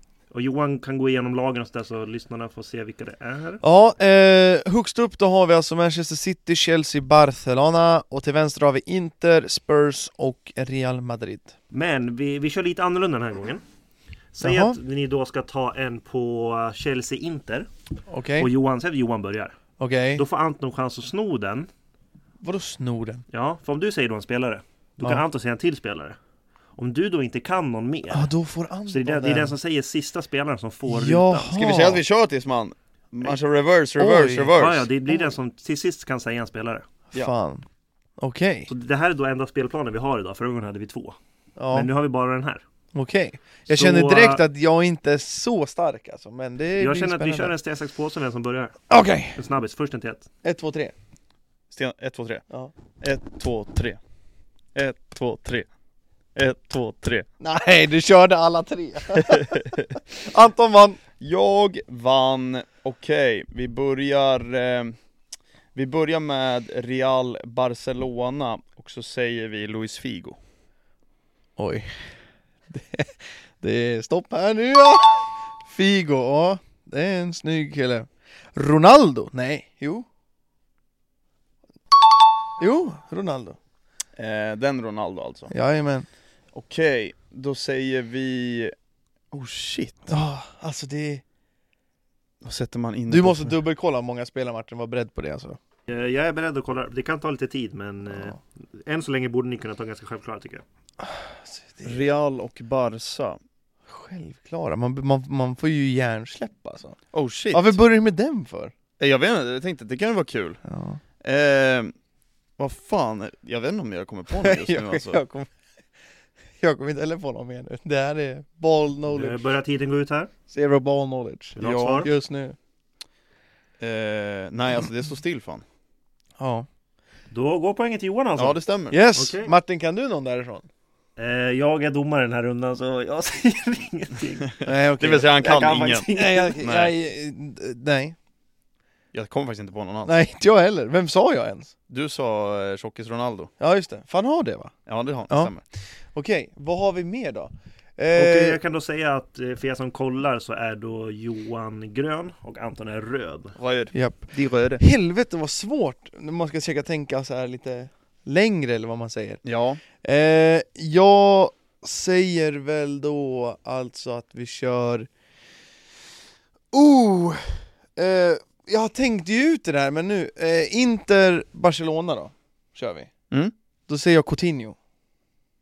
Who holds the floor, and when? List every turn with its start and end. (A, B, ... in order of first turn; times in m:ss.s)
0:00.3-0:03.6 A
0:03.6-0:11.5 B
0:11.7-0:13.6 A
0:14.3-0:17.7 A
0:14.4-0:14.8 B
0:18.1-0:18.5 B
0:18.4-0:19.6 A
0:19.8-0:20.2 B
0:20.2-0:21.7 A
0:22.4-0:23.2 B
0:23.3-0:26.2 A
0:26.8-0:28.3 A
0:28.1-0:29.6 B
0:28.9-0:31.5 A
0:30.9-0:32.0 B
0:31.5-0:34.9 C
0:34.0-0:34.5 B
0:34.6-0:36.9 A
0:35.1-0:35.4 B
0:37.1-0:37.7 B
0:38.2-0:38.7 B
0:38.7-0:41.2 A
0:41.6-0:41.9 B
0:41.7-0:42.6 A
0:42.9-0:47.6 B
0:43.7-0:44.4 A
0:46.8-0:48.8 A
0:48.9-0:49.4 B
0:49.4-0:50.3 A
0:50.4-0:50.9 B
0:51.7-0:52.4 C
0:53.0-0:54.0 C
0:54.8-0:55.7 C
0:56.4-0:57.3 C
0:57.4-1:01.0 B
0:59.3-0:59.8 C
1:01.2-1:05.0 C
1:05.8-1:10.4 C
1:11.6-1:12.1 B
1:12.7-1:20.1 B
1:22.6-1:23.6 B
1:24.2-1:25.5 C
1:25.5-1:26.1 B
1:26.5-1:28.7 C
1:29.3-1:30.0 C
1:30.1-1:31.2 B
1:32.4-1:33.5 C
1:33.1-1:35.6 B
1:35.9-1:40.6 A
1:38.1-1:38.4 B
1:41.0-1:42.1 B
1:41.8-1:43.4 C
1:43.9-1:47.0 B
1:47.1-1:47.8 C
1:47.5-1:48.7 B
1:49.0-1:50.6 C
1:50.6-1:51.0 B
1:51.2-1:51.9 C
1:52.6-1:55.2 C
1:54.4-1:55.5 B
1:56.6-1:59.4 B
1:59.1-2:00.3 A
2:00.5-2:02.6 B
2:01.6-2:02.1 A
2:01.6-2:02.1 C
2:03.8-2:05.6 C
2:06.4-2:06.7 B
2:07.3-2:08.6 A
2:08.4-2:09.0 C
2:08.9-2:10.7 B
2:09.1-2:09.5 A
2:11.2-2:14.6 A
2:14.6-2:16.1 C
2:14.6-2:15.3 B
2:15.2-2:16.6 A
2:16.1-2:18.2 B
2:16.6-2:16.9 C
2:19.1-2:20.2 C
2:20.1-2:21.7 B
2:21.9-2:23.5 C
2:23.6-2:24.7 B
2:24.9-2:25.6 C
2:25.3-2:28.6 B
2:28.2-2:33.6 A
2:33.6-2:34.8 C
2:33.9-2:39.4 B
2:39.4-2:39.8 C
2:40.0-2:45.1 B
2:46.7-2:53.1 B
2:53.9-2:54.8 B